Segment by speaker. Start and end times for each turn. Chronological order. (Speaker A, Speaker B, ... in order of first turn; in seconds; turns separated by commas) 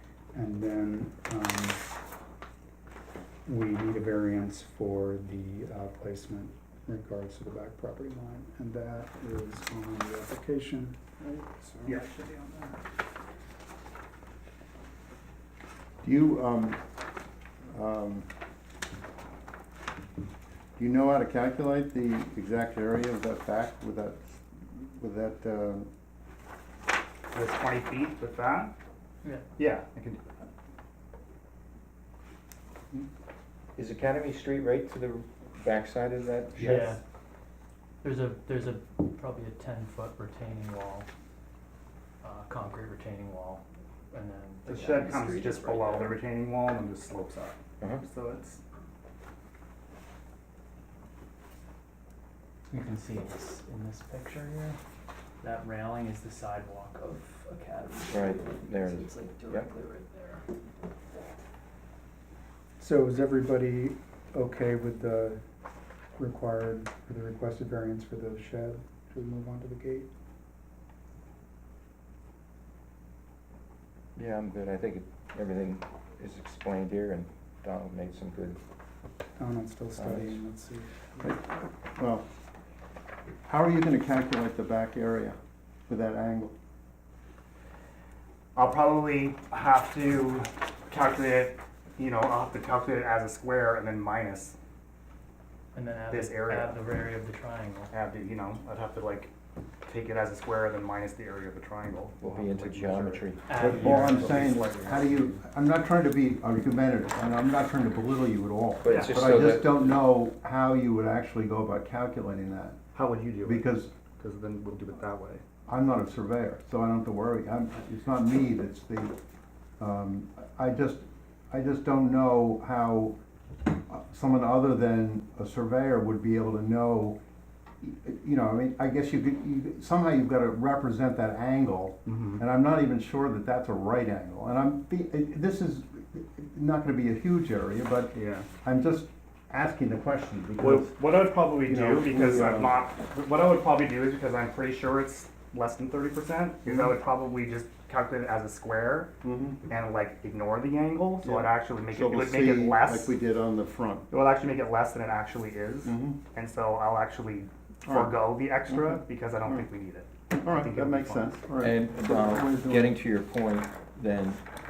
Speaker A: 0.3-1.8, Speaker A: 3.5-12.0, Speaker B: 11.8-12.8, Speaker C: 16.0-16.8, Speaker C: 17.7-18.2, Speaker C: 20.8-25.9, Speaker B: 27.3-28.7, Speaker B: 29.6-30.5, Speaker D: 33.8-36.8, Speaker B: 36.5-37.0, Speaker E: 36.6-37.0, Speaker E: 38.0-41.1, Speaker E: 42.2-46.2, Speaker B: 44.7-48.6, Speaker E: 52.7-54.8, Speaker E: 55.4-60.4, Speaker D: 58.1-59.7, Speaker A: 62.8-65.4, Speaker A: 66.2-70.1, Speaker D: 74.2-78.6, Speaker A: 79.4-80.9, Speaker D: 80.0-80.4, Speaker C: 81.2-82.2, Speaker C: 83.5-85.3, Speaker C: 85.9-86.5, Speaker B: 88.5-94.5, Speaker E: 95.7-97.9, Speaker B: 96.1-96.8, Speaker B: 97.9-99.3, Speaker B: 99.8-105.4, Speaker D: 102.2-103.6, Speaker E: 103.5-104.5, Speaker C: 103.6-112.8, Speaker D: 108.8-109.9, Speaker B: 108.9-109.2, Speaker B: 112.9-115.4, Speaker C: 113.4-113.9, Speaker C: 115.7-119.1, Speaker C: 119.8-123.2, Speaker C: 123.9-127.2, Speaker C: 127.8-140.9, Speaker B: 132.1-132.4, Speaker B: 138.1-138.5, Speaker B: 140.6-149.1, Speaker C: 141.6-142.7, Speaker C: 146.7-146.9, Speaker C: 149.2-149.6, Speaker B: 149.7-153.1, Speaker C: 151.2-154.1, Speaker B: 154.1-161.4, Speaker C: 155.8-156.2, Speaker C: 157.8-158.2, Speaker C: 158.7-159.6, Speaker C: 160.3-162.9, Speaker D: 161.6-164.4